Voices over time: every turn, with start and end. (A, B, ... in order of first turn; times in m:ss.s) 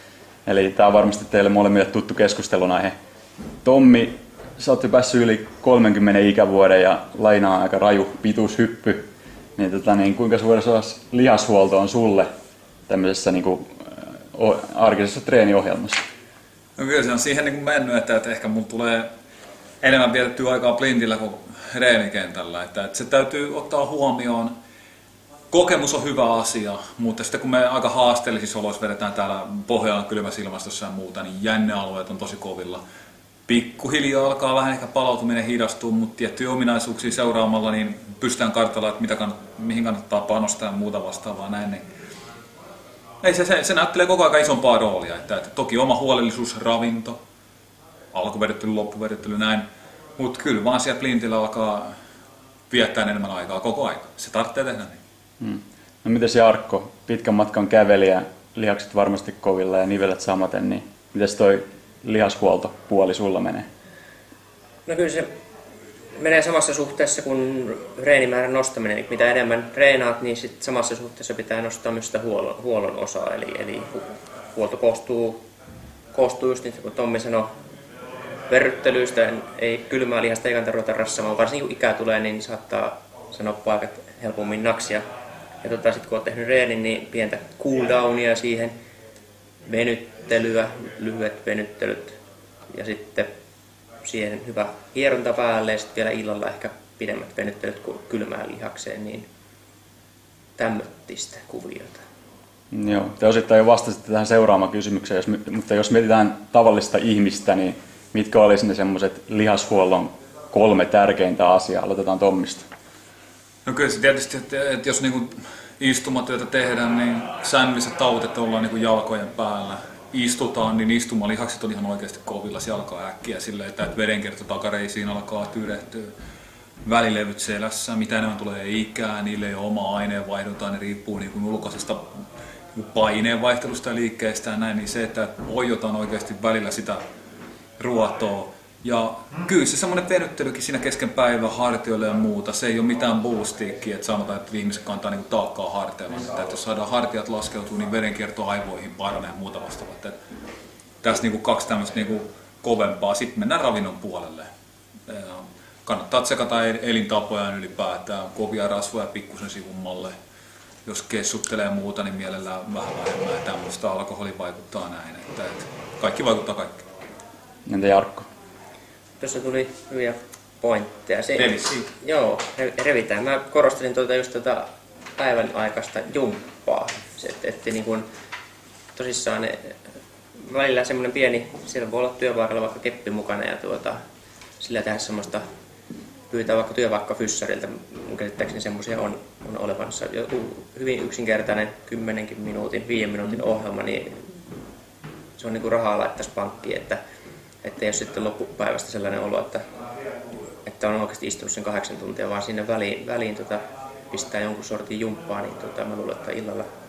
0:00.5-0:03.0 A
0:03.6-0:12.3 A
0:12.9-0:16.0 A
0:16.8-0:19.1 B
0:19.8-0:24.5 B
0:25.5-0:32.8 B
0:33.5-0:41.8 B
0:43.2-0:47.2 B
0:48.1-0:49.7 B
0:50.2-0:52.0 B
0:52.7-0:55.0 B
0:55.4-1:03.7 A
1:04.9-1:05.3 C
1:06.2-1:15.4 C
1:16.1-1:17.5 C
1:18.5-1:25.0 C
1:25.6-1:28.7 C
1:29.6-1:32.2 C
1:32.7-1:33.3 C
1:34.0-1:39.3 C
1:40.6-1:42.0 C
1:42.7-1:52.7 A
1:53.7-2:06.1 B
2:06.8-2:12.1 B
2:12.7-2:17.0 B
2:17.8-2:30.2 B
2:31.0-2:34.5 B
2:35.1-2:40.1 B
2:40.8-2:46.8 B
2:47.7-2:48.3 A
2:49.2-2:58.1 C
2:51.4-2:51.9 B
2:59.0-2:59.7 C
3:00.4-3:04.0 C
3:04.6-3:05.4 C
3:06.3-3:14.3 C
3:15.4-3:17.0 C
3:17.6-3:19.6 C
3:20.6-3:26.7 C